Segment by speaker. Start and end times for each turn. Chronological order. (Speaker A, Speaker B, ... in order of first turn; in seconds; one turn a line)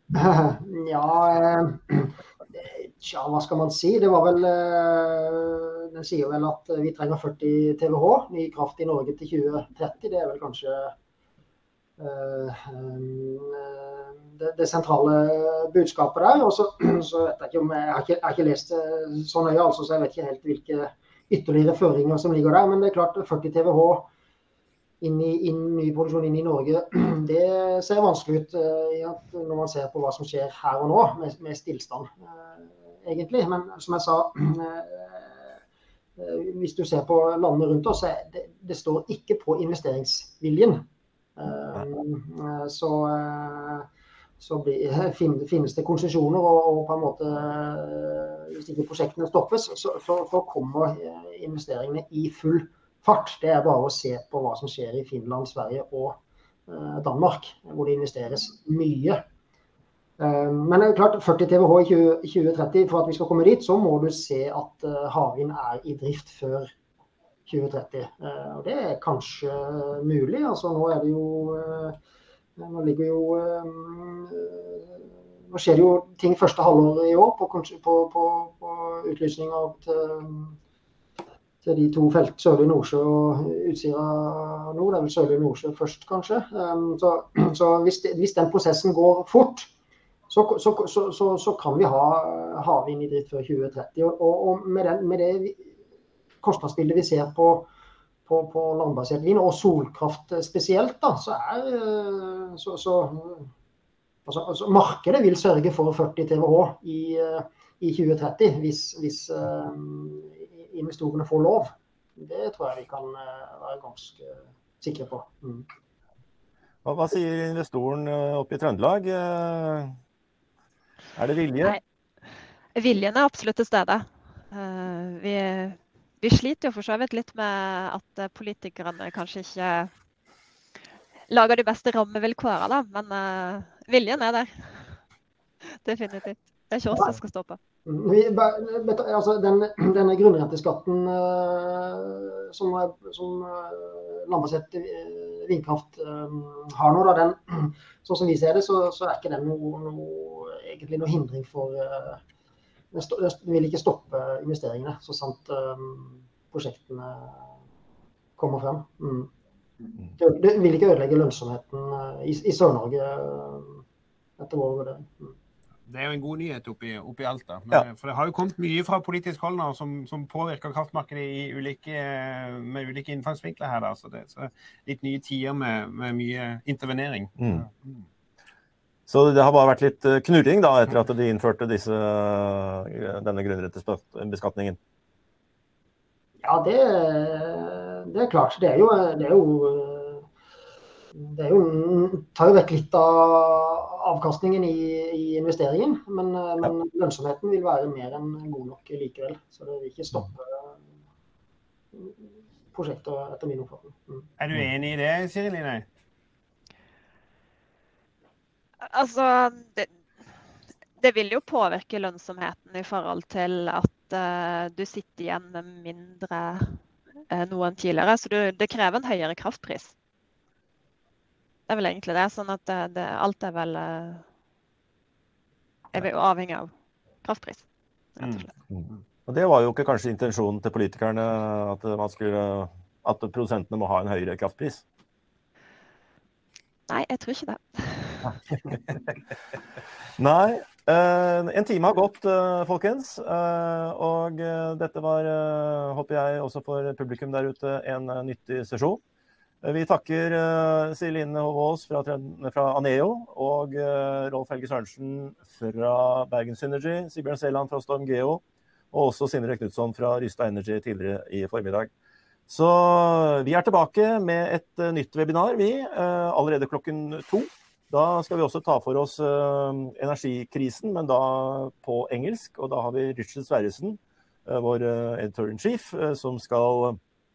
Speaker A: 0.1-10.9
Speaker A: 12.0-24.1
Speaker A: 25.0-35.4
Speaker A: 36.2-40.9
Speaker A: 41.4-43.9
Speaker A: 44.4-59.2
Speaker A: 60.2-66.7
Speaker A: 67.5-72.0
Speaker A: 72.6-74.9
Speaker A: 75.5-80.5
Speaker A: 81.6-89.7
Speaker A: 90.3-95.7
Speaker A: 96.4-97.7
Speaker A: 98.2-103.5
Speaker A: 104.2-115.7
Speaker B: 116.8-120.0
Speaker B: 121.2-121.8
Speaker C: 122.7-129.9
Speaker C: 131.3-135.0
Speaker C: 135.8-137.6
Speaker A: 137.8-152.2
Speaker A: 152.9-157.5
Speaker A: 158.4-159.3
Speaker A: 160.2-163.8
Speaker A: 164.4-165.3
Speaker D: 165.9-177.9
Speaker B: 177.4-177.7
Speaker B: 179.1-184.8
Speaker A: 186.4-190.2
Speaker A: 191.2-200.7
Speaker A: 201.9-204.3
Speaker D: 204.4-205.8
Speaker C: 208.8-209.9
Speaker C: 211.0-219.9
Speaker C: 221.7-224.2
Speaker C: 225.9-226.7
Speaker C: 227.2-227.6
Speaker C: 228.2-228.5
Speaker D: 228.2-228.4
Speaker B: 228.7-234.8
Speaker C: 236.9-238.3
Speaker B: 240.2-249.0
Speaker B: 249.6-261.9
Speaker B: 262.5-277.0